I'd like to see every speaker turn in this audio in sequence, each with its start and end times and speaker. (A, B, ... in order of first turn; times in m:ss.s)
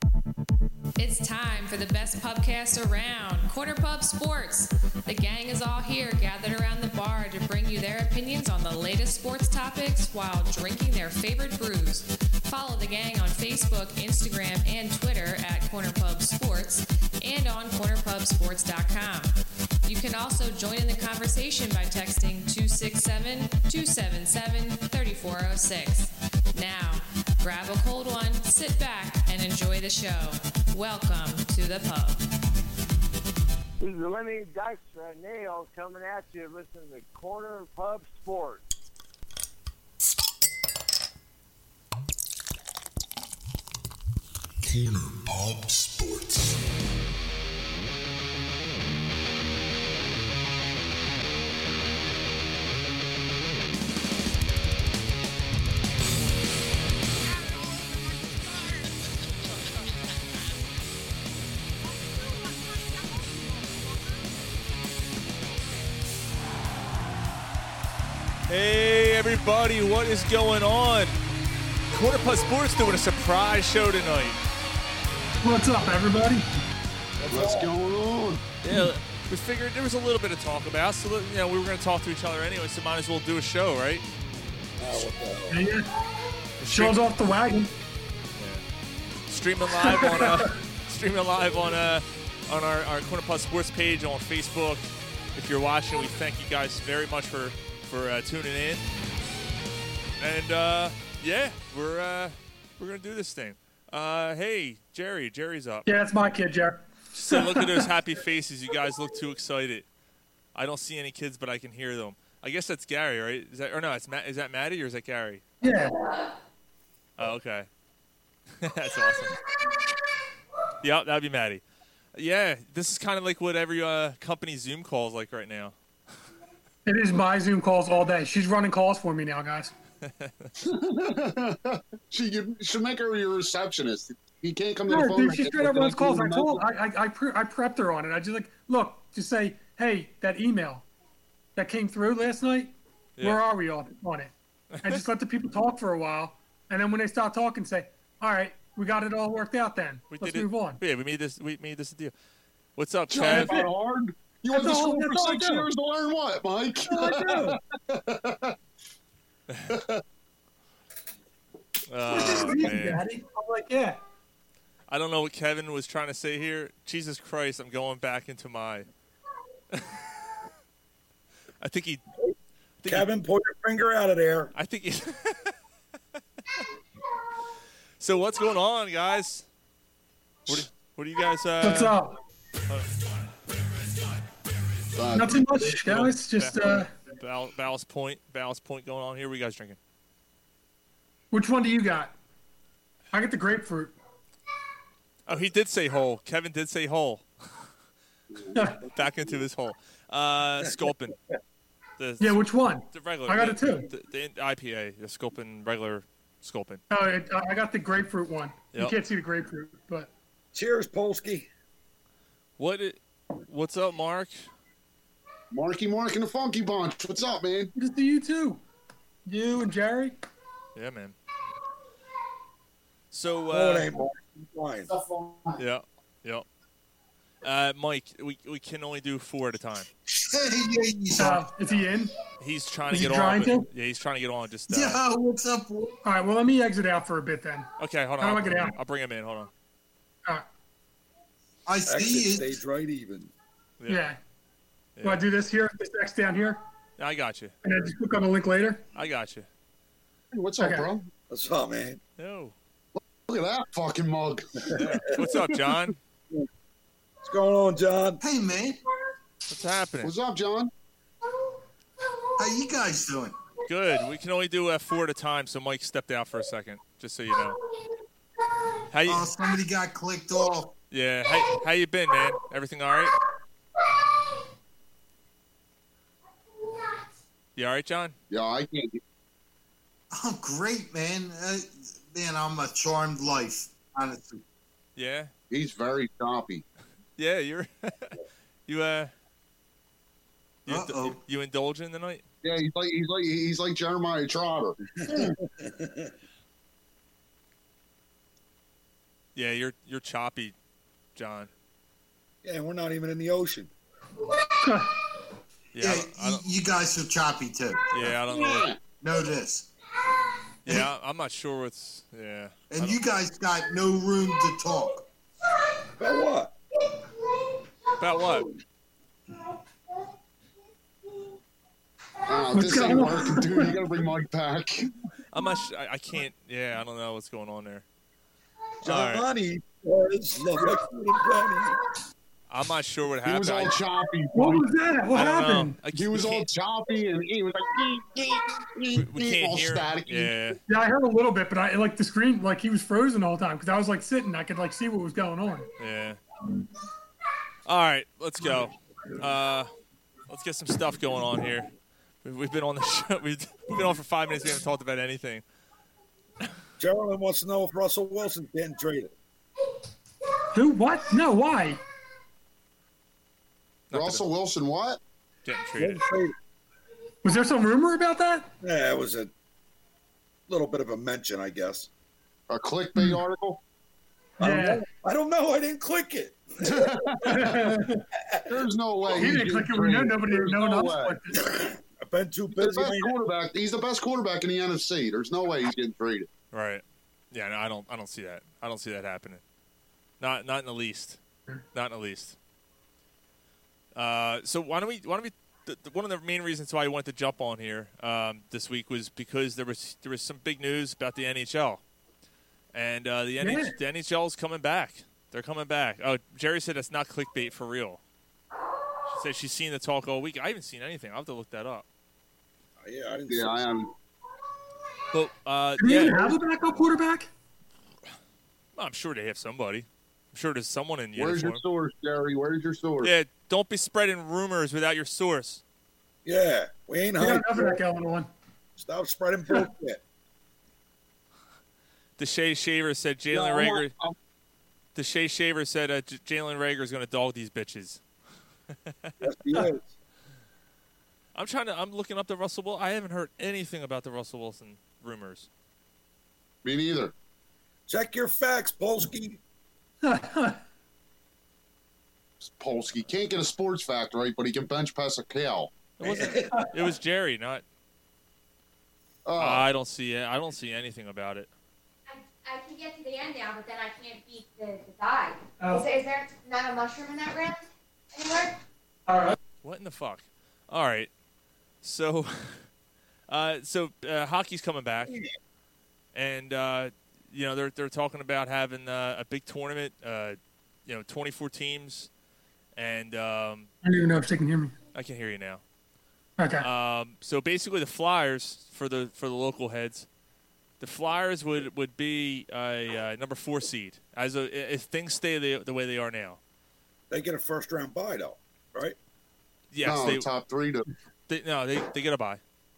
0:01.0-0:32.2 A
0:33.8-0:38.6 B
0:44.6-0:46.6 C
1:08.5-1:11.1 D
1:11.9-1:14.4 D
1:15.4-1:16.4 E
1:17.2-1:17.7 F
1:17.3-1:18.4 G
1:18.6-1:24.0 D
1:24.8-1:25.6 F
1:25.5-1:25.9 E
1:26.6-1:27.0 D
1:26.7-1:27.7 E
1:28.4-1:28.6 D
1:29.3-1:38.8 D
1:29.8-1:30.6 E
1:40.2-1:45.9 D
1:45.8-1:47.9 E
1:47.1-1:49.8 D
1:50.5-1:55.5 D
1:55.6-1:56.2 E
1:57.2-1:57.7 D
1:58.6-1:59.4 D
2:00.8-2:01.6 D
2:02.1-2:05.8 D
2:06.8-2:09.7 E
2:10.0-2:10.5 D
2:10.6-2:16.6 G
2:14.9-2:20.9 E
2:21.6-2:24.3 E
2:24.8-2:30.8 E
2:30.1-2:32.1 D
2:32.8-2:33.5 D
2:33.1-2:38.6 G
2:33.2-2:33.7 E
2:34.5-2:35.7 E
2:37.0-2:37.5 E
2:37.1-2:37.6 F
2:39.5-2:39.8 D
2:39.7-2:40.0 G
2:41.9-2:43.0 D
2:42.0-2:44.0 E
2:44.9-2:48.9 D
2:49.7-2:50.0 D
2:51.6-2:52.0 D
2:52.8-2:53.1 D
2:52.8-2:54.5 F
2:54.5-2:55.5 D
2:58.0-2:59.4 D
3:00.5-3:01.9 D
3:01.6-3:02.2 E
3:04.9-3:05.7 G
3:05.1-3:06.9 E
3:05.8-3:09.8 D
3:11.3-3:12.1 E
3:13.1-3:13.9 E
3:15.3-3:17.3 D
3:18.5-3:18.8 E
3:18.8-3:21.2 D
3:22.0-3:26.8 D
3:22.2-3:23.9 E
3:26.9-3:30.1 E
3:30.5-3:31.5 F
3:32.6-3:34.5 D
3:35.5-3:37.7 G
3:37.7-3:38.6 E
3:39.2-3:40.2 E
3:40.7-3:41.1 D
3:43.1-3:43.9 D
3:43.5-3:44.9 F
3:44.9-3:45.5 H
3:45.6-3:46.4 D
3:47.4-3:49.9 D
3:50.1-3:51.5 H
3:51.2-3:52.1 E
3:52.4-3:55.0 D
3:52.9-3:53.7 E
3:54.7-3:56.0 H
3:56.0-3:57.7 E
3:57.8-3:59.5 D
3:58.2-3:58.8 E
4:01.6-4:02.6 H
4:01.9-4:03.3 F
4:03.9-4:04.2 E
4:05.0-4:05.3 D
4:05.0-4:06.6 E
4:07.0-4:07.5 D
4:07.6-4:08.8 E
4:08.9-4:09.5 D
4:10.3-4:11.1 G
4:10.6-4:10.9 E
4:11.3-4:12.0 F
4:12.2-4:12.5 D
4:13.0-4:15.8 G
4:14.7-4:16.0 D
4:17.2-4:18.2 F
4:18.2-4:18.8 H
4:19.5-4:20.1 D
4:20.0-4:20.7 G
4:22.4-4:23.3 H
4:23.6-4:27.6 D
4:28.9-4:29.3 D
4:29.0-4:30.7 H
4:30.9-4:33.1 D
4:37.6-4:38.1 D
4:38.3-4:39.0 G
4:40.1-4:44.4 H
4:45.0-4:45.3 D
4:45.5-4:46.6 G
4:47.2-4:49.1 D
4:50.6-4:51.2 H
4:50.6-4:52.2 D
4:52.4-4:55.4 G
4:55.0-4:56.1 F
4:59.3-5:00.5 D
5:01.2-5:01.5 D
5:02.4-5:03.7 F
5:04.6-5:04.9 E
5:05.7-5:06.4 D
5:05.8-5:07.8 H
5:07.9-5:08.7 D
5:08.2-5:08.8 G
5:09.0-5:09.7 H
5:10.6-5:13.0 D
5:12.7-5:15.0 H
5:16.0-5:16.5 F
5:18.0-5:18.5 D
5:22.2-5:24.9 G
5:22.5-5:23.8 E
5:25.3-5:27.8 D
5:28.8-5:31.8 F
5:28.8-5:29.2 D
5:32.5-5:33.8 D
5:33.2-5:34.7 G
5:34.3-5:35.8 E
5:35.1-5:36.5 D
5:35.9-5:40.3 G
5:38.9-5:40.6 D
5:40.7-5:45.7 E
5:45.8-5:46.2 D
5:47.6-5:49.7 D
5:50.3-5:51.7 D
5:52.2-5:55.4 D
5:56.8-5:59.1 F
6:00.5-6:01.8 E
6:03.9-6:04.2 D
6:03.9-6:05.0 G
6:05.4-6:06.1 D
6:05.8-6:06.3 F
6:07.2-6:08.5 E
6:08.6-6:09.3 F
6:10.5-6:11.9 F
6:12.5-6:13.6 G
6:12.9-6:13.2 E
6:14.4-6:17.8 F
6:14.4-6:14.8 E
6:16.6-6:17.5 G
6:17.3-6:18.0 E
6:18.5-6:21.2 G
6:19.1-6:21.4 E
6:21.4-6:23.1 F
6:22.5-6:26.3 G
6:26.5-6:29.4 D
6:30.2-6:31.2 D
6:31.7-6:32.4 D
6:33.9-6:41.8 D
6:42.7-6:48.0 D
6:43.4-6:43.8 E
6:49.1-6:51.8 D
6:52.8-6:53.6 F
6:53.3-6:53.9 G
6:55.1-6:56.4 D
6:55.8-6:57.3 E
6:58.8-7:01.6 D
7:01.1-7:03.1 G
7:03.0-7:05.6 D
7:06.2-7:07.8 F
7:07.2-7:08.3 E
7:08.8-7:10.0 F
7:12.2-7:13.9 D
7:13.3-7:14.1 G
7:14.9-7:18.0 D
7:18.8-7:19.1 D
7:19.2-7:19.9 F
7:21.3-7:25.5 D
7:26.6-7:27.1 G
7:27.9-7:29.4 F
7:30.0-7:30.6 E
7:32.4-7:35.7 G
7:36.0-7:37.6 D
7:36.0-7:36.6 F
7:39.2-7:39.6 G
7:39.4-7:41.5 D
7:42.1-7:48.5 I
7:45.6-7:45.8 E
7:49.1-7:49.4 E
7:49.6-7:51.1 D
7:51.8-7:52.7 D
7:53.3-7:55.2 D
7:56.1-8:02.1 D
8:02.8-8:03.7 D
8:03.8-8:04.7 E
8:04.9-8:05.6 D
8:06.4-8:06.7 E
8:06.6-8:10.1 D
8:10.8-8:16.4 D
8:17.1-8:19.0 F
8:19.7-8:20.3 D
8:19.8-8:20.8 G
8:21.3-8:22.4 D